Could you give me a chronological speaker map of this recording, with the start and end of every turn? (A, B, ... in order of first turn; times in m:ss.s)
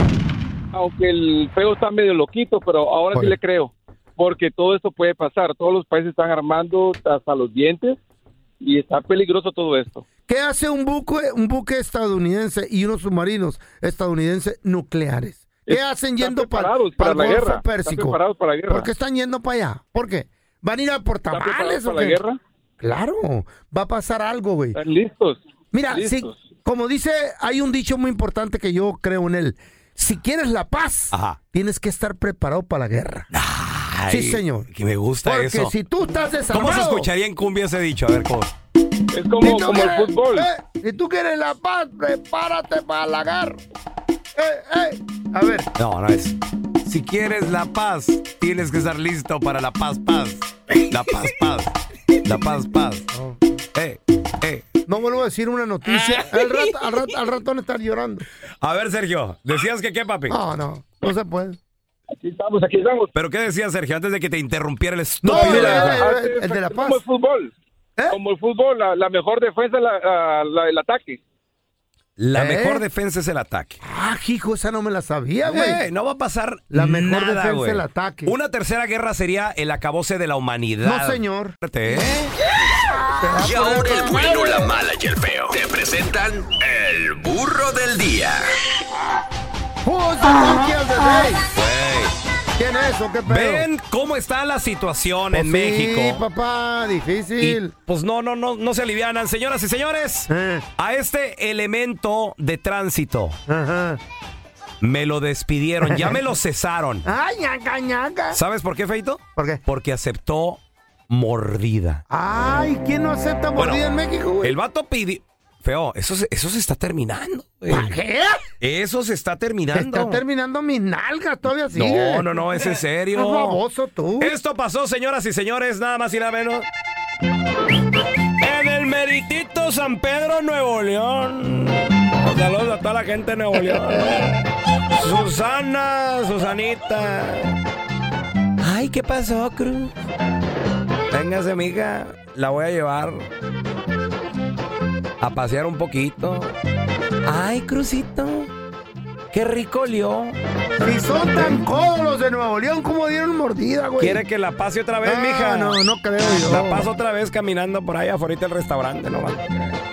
0:00.7-0:08.0 A
0:08.6-0:10.0 A
0:10.3-0:18.2 B
0:15.7-0:18.9 A
0:18.7-0:22.2 B
0:21.3-0:22.4 A
0:22.8-0:24.8 B
0:24.7-0:25.4 A
0:25.7-0:33.3 B
0:25.9-0:26.4 A
0:31.1-0:31.4 C
0:33.3-0:35.7 C
0:34.1-0:34.7 B
0:35.2-0:37.1 B
0:36.5-0:38.5 C
0:39.1-0:40.5 A
0:39.4-0:43.6 B
0:44.3-0:45.7 B
0:45.8-0:53.0 C
0:53.1-0:53.4 B
0:53.7-0:54.6 C
0:54.9-0:58.2 B
0:58.6-1:00.4 C
1:00.3-1:01.6 B
1:02.2-1:03.1 A
1:03.1-1:06.0 C
1:05.2-1:07.0 B
1:05.3-1:07.5 A
1:08.1-1:11.2 A
1:12.2-1:13.8 C
1:12.3-1:12.8 B
1:13.8-1:15.8 B
1:15.4-1:22.3 C
1:16.7-1:18.3 B
1:20.8-1:21.5 B
1:23.1-1:24.6 B
1:23.4-1:28.5 D
1:29.8-1:31.4 B
1:31.5-1:32.2 C
1:32.6-1:33.7 B
1:33.3-1:36.2 C
1:35.3-1:37.7 B
1:37.4-1:43.4 C
1:40.3-1:40.6 B
1:43.5-1:44.0 B
1:44.8-1:47.1 C
1:45.8-1:46.2 B
1:47.0-1:48.4 B
1:48.3-1:52.0 C
1:49.4-1:49.6 B
1:52.1-1:54.6 B
1:53.6-1:53.8 C
1:54.4-1:57.9 C
1:57.7-1:58.5 B
1:58.6-2:00.2 C
1:59.7-2:04.3 B
2:01.7-2:03.6 C
2:04.2-2:06.7 C
2:08.4-2:14.4 C
2:13.5-2:14.3 B
2:15.0-2:17.6 C
2:18.6-2:19.9 C
2:21.1-2:23.2 C
2:25.2-2:26.5 C
2:27.2-2:28.5 C
2:29.3-2:30.4 C
2:30.8-2:34.2 B
2:31.1-2:31.6 C
2:34.0-2:35.8 C
2:35.0-2:36.9 B
2:36.4-2:39.8 C